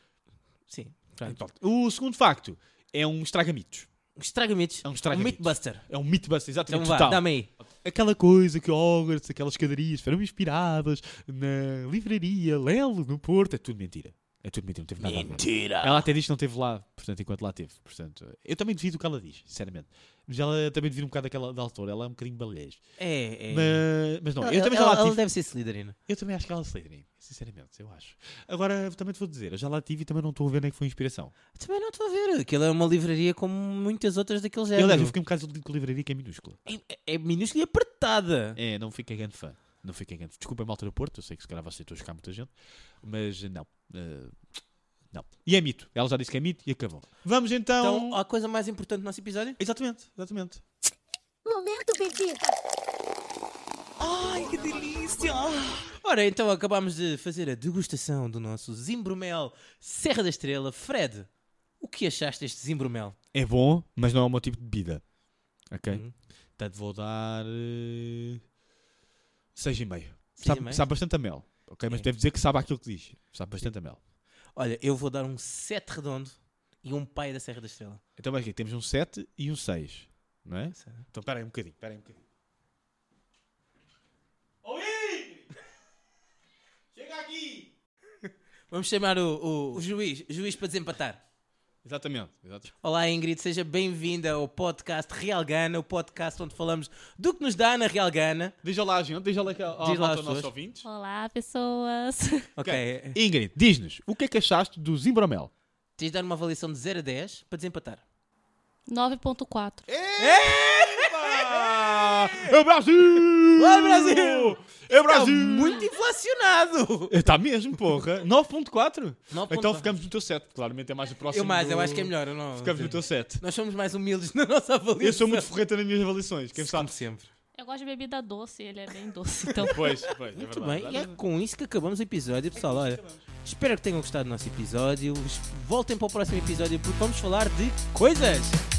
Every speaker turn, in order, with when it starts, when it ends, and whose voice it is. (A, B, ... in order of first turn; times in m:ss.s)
0:00.7-0:01.4 A
0:01.2-0:03.9 B
0:04.2-0:05.8 A
0:04.8-0:22.8 B
0:06.6-0:07.5 A
0:15.0-0:16.1 A
0:23.0-0:23.8 A
0:23.5-0:25.2 B
0:24.4-0:26.0 A
0:26.1-0:31.3 B
0:31.5-0:35.1 A
0:34.8-0:36.6 B
0:36.6-0:38.6 A
0:38.6-0:42.5 B
0:43.0-0:44.4 B
0:45.1-0:48.2 B
0:47.8-0:49.6 A
0:49.6-0:50.6 B
0:51.4-0:52.4 C
0:54.0-1:01.3 A
1:01.8-1:03.2 A
1:03.3-1:05.0 B
1:05.6-1:06.0 B
1:06.6-1:08.4 B
1:09.5-1:14.0 B
1:10.4-1:10.8 A
1:14.6-1:18.0 A
1:18.2-1:22.2 B
1:20.7-1:21.0 A
1:24.6-1:25.5 B
1:26.9-1:27.7 B
1:28.7-1:31.2 A
1:31.8-1:32.7 B
1:32.8-1:38.5 A
1:38.6-1:40.8 B
1:39.8-1:40.5 A
1:40.8-1:42.5 C
1:42.6-1:43.2 A
1:42.6-1:45.5 B
1:46.0-1:48.0 A
1:48.9-1:49.9 C
1:49.9-1:55.8 B
1:50.2-1:52.5 A
1:53.5-1:57.1 A
1:57.1-2:03.4 B
1:59.3-1:59.9 A
2:01.3-2:05.5 A
2:05.0-2:06.9 B
2:06.5-2:07.3 A
2:07.5-2:09.9 C
2:09.6-2:11.2 B
2:09.8-2:18.6 A
2:12.5-2:13.2 B